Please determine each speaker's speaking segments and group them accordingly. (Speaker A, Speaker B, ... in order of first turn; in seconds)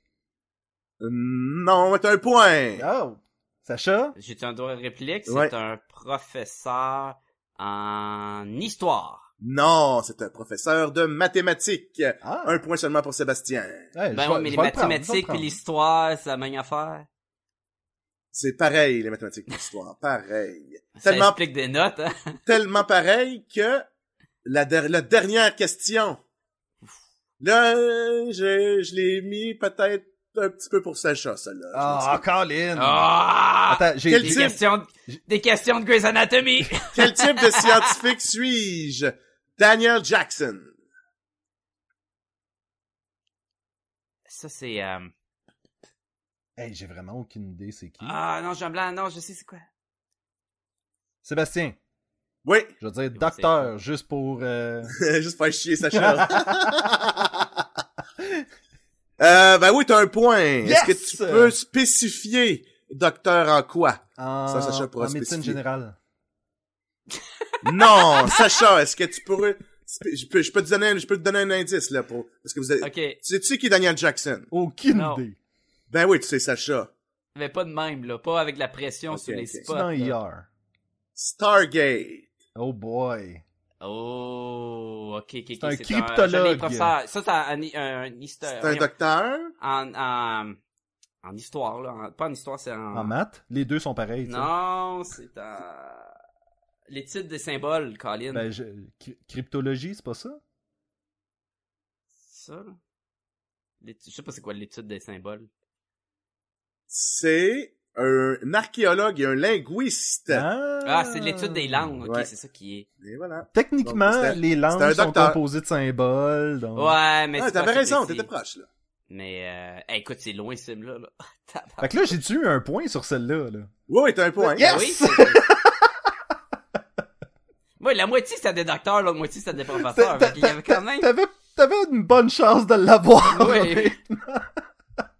Speaker A: 1.0-2.9, 5.3-5.5, 9.4-13.9, 18.3-21.4, 22.5-23.9, 24.4-26.2, 27.4-32.2, 34.1-34.6, 36.9-40.7, 52.5-52.7, 54.9-57.5, 59.2-65.6, 67.6-74.5, 75.9-76.9, 79.1-79.7, 81.2-82.3, 88.5-89.5, 106.9-110.5, 112.0-112.3, 113.0-115.4, 117.4-118.7, 123.9-124.8
Speaker B: 2.8-4.2, 12.2-12.6, 13.9-15.6, 31.7-33.1, 33.7-34.6, 46.6-48.2, 51.2-51.8, 52.8-55.0, 56.0-57.0, 58.2-58.5, 60.6-61.5, 64.2-66.0, 74.5-75.4, 79.7-80.5, 82.5-83.4, 85.6-86.9, 92.9-94.5, 98.3-100.4, 110.3-112.0, 113.5-117.0, 121.8-123.7, 124.4-125.9, 129.7-134.6
Speaker C: 4.2-9.2, 14.1-17.1, 21.0-22.4, 32.8-37.4, 44.3-45.1, 48.0-49.6, 53.2-53.7, 67.8-68.5, 72.8-73.2, 74.9-75.2, 77.3-80.2, 83.8-88.9, 89.6-90.6, 91.2-93.1, 94.3-96.1, 96.9-98.5, 102.1-102.8, 103.8-105.5, 110.8-112.9, 116.8-118.3, 119.1-122.1, 124.6-125.5, 127.8-131.1, 133.2-134.0